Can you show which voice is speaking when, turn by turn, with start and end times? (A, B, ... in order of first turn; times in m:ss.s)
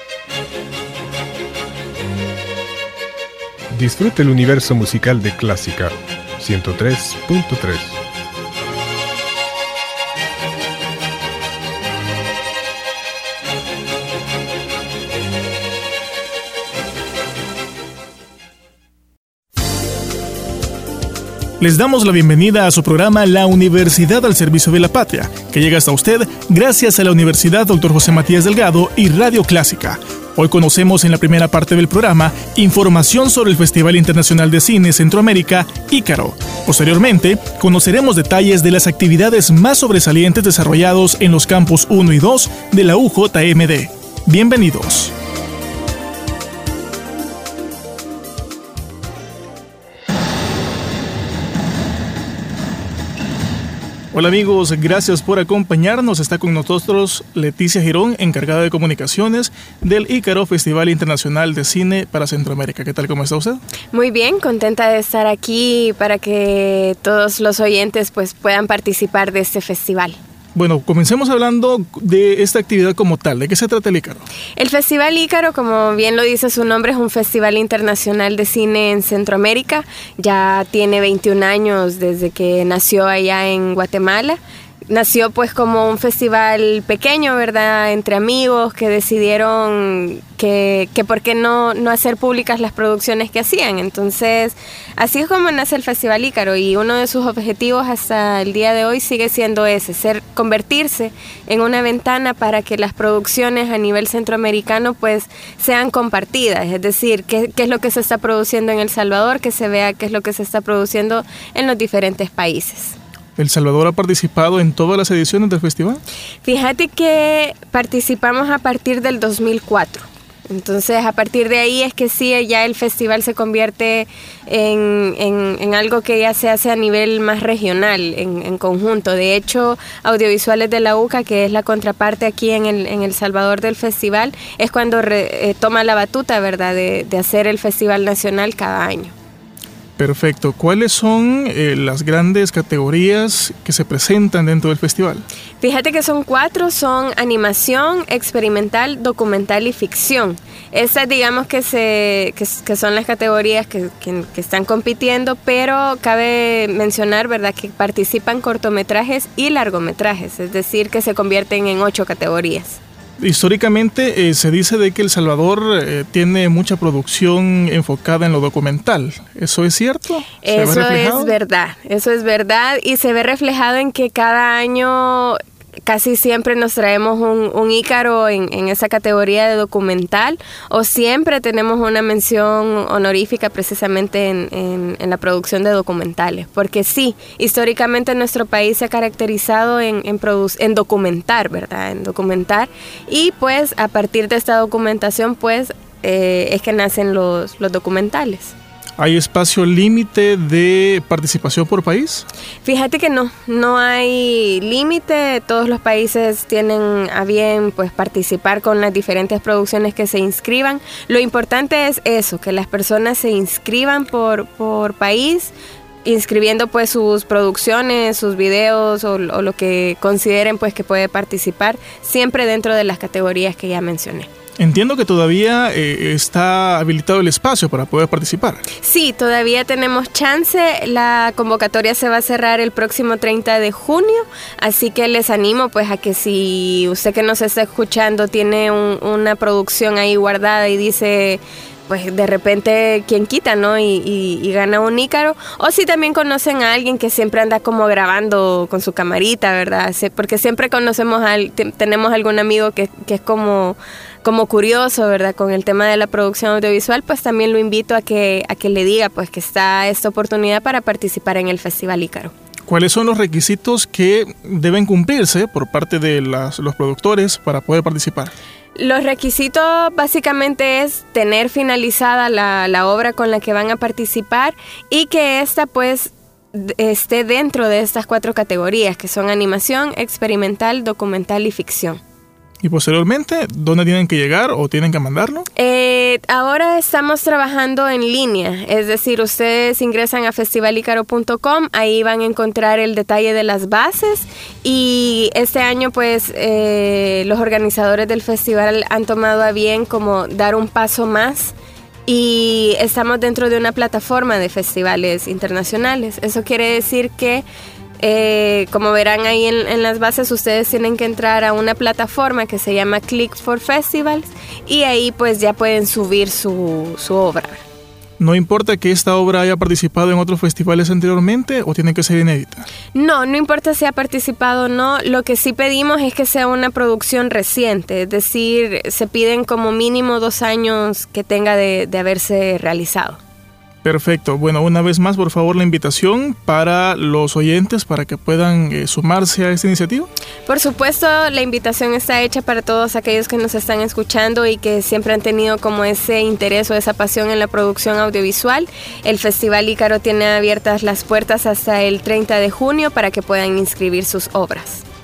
0:03.7-0:08.0 A
0:21.6-0:45.1 B
0:54.1-1:03.6 B
1:03.9-1:10.2 C
1:10.5-1:14.2 B
1:14.6-1:52.9 C
1:53.4-1:56.0 B
1:56.4-2:19.1 C
2:20.0-2:25.2 B
2:25.6-2:42.8 C
2:43.2-2:51.3 B
2:50.4-3:18.5 C
3:19.0-3:22.2 B
3:22.6-3:35.5 C
3:36.0-3:44.3 C
3:44.6-3:48.7 B
3:48.7-4:22.3 C
4:22.7-4:28.3 B
4:28.8-4:42.0 C
4:42.6-4:45.4 B
4:45.6-5:01.5 C
5:02.1-5:07.4 C
5:08.0-5:17.6 C
5:18.2-5:22.7 B
5:22.9-5:33.2 C
5:33.8-5:40.1 B
5:40.5-5:54.8 C